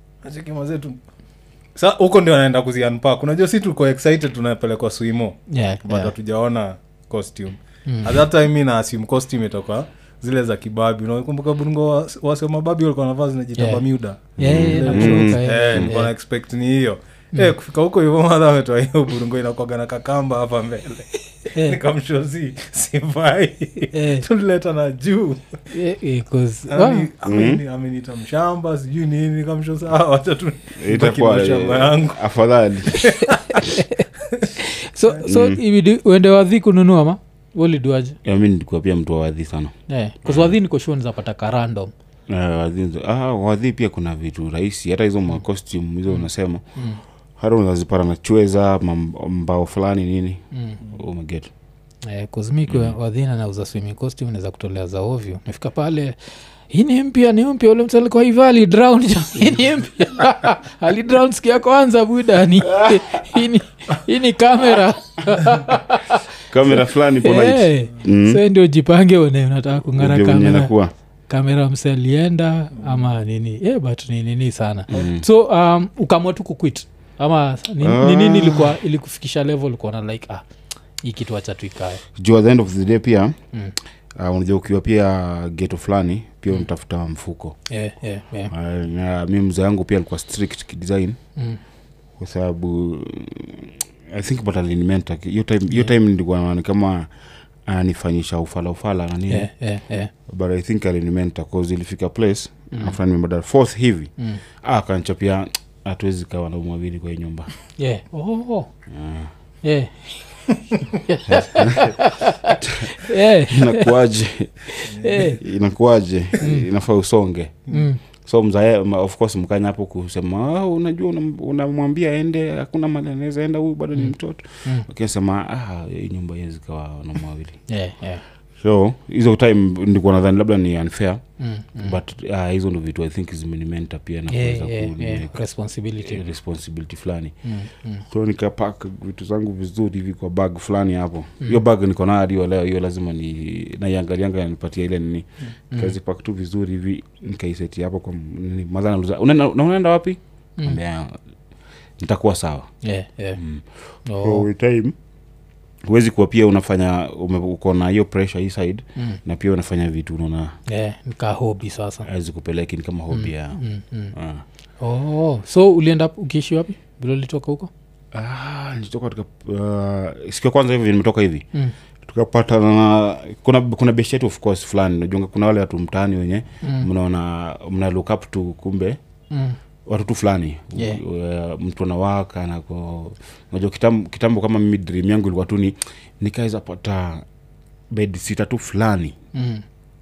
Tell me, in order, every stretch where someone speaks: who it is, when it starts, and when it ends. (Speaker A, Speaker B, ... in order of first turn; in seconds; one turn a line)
Speaker A: 0.2-1.0
Speaker A: 1.8-25.4
Speaker B: 5.5-6.1
Speaker B: 7.9-8.1
Speaker B: 13.6-13.8
Speaker B: 14.4-16.1
Speaker C: 14.4-15.9
Speaker B: 21.5-21.8
Speaker B: 23.9-24.2
Speaker B: 25.7-27.1
Speaker A: 26.7-32.2
Speaker C: 27.2-27.6
Speaker C: 30.8-33.1
Speaker A: 33.0-33.6
Speaker B: 33.0-34.0
Speaker B: 34.6-38.2
Speaker C: 35.2-35.6
Speaker C: 38.2-39.7
Speaker B: 39.9-41.9
Speaker C: 40.2-40.5
Speaker C: 42.3-46.6
Speaker B: 46.8-47.0
Speaker C: 47.4-51.5
Speaker B: 50.5-50.8
Speaker B: 52.0-56.1
Speaker C: 52.7-53.0
Speaker B: 56.7-70.7
Speaker C: 66.5-68.4
Speaker C: 69.9-70.9
Speaker B: 71.3-80.4
Speaker C: 74.9-75.2
Speaker C: 77.8-78.8
Speaker B: 81.0-82.0
Speaker C: 82.1-83.3
Speaker C: 84.1-87.5
Speaker B: 87.7-88.5
Speaker C: 88.5-91.2
Speaker C: 92.2-97.1
Speaker C: 97.7-99.5
Speaker B: 99.3-100.1
Speaker C: 100.3-107.5
Speaker B: 107.8-108.7
Speaker C: 108.9-109.3
Speaker B: 109.6-113.9
Speaker C: 111.3-112.0
Speaker C: 112.6-117.7
Speaker B: 114.7-115.4
Speaker A: 114.9-115.3
Speaker B: 116.4-116.7
Speaker B: 117.7-118.0
Speaker C: 118.2-127.6
Speaker B: 127.7-128.2
Speaker C: 128.6-131.2
Speaker B: 131.4-132.0
Speaker C: 131.8-135.4
Speaker B: 134.3-136.2
Speaker C: 136.0-137.3
Speaker B: 137.4-138.0
Speaker C: 138.1-151.2
Speaker C: 152.0-152.7
Speaker B: 152.8-153.4
Speaker C: 153.4-153.6
Speaker B: 154.1-154.4
Speaker C: 154.2-154.9
Speaker C: 155.8-160.6
Speaker B: 160.7-162.1
Speaker C: 162.0-163.6
Speaker B: 163.1-164.1
Speaker C: 164.1-164.4
Speaker B: 164.8-167.7
Speaker C: 168.1-171.4
Speaker C: 172.0-179.0
Speaker B: 176.6-176.9
Speaker B: 179.3-179.6
Speaker C: 179.8-187.2
Speaker B: 180.7-181.0
Speaker C: 187.9-189.1
Speaker B: 189.3-189.6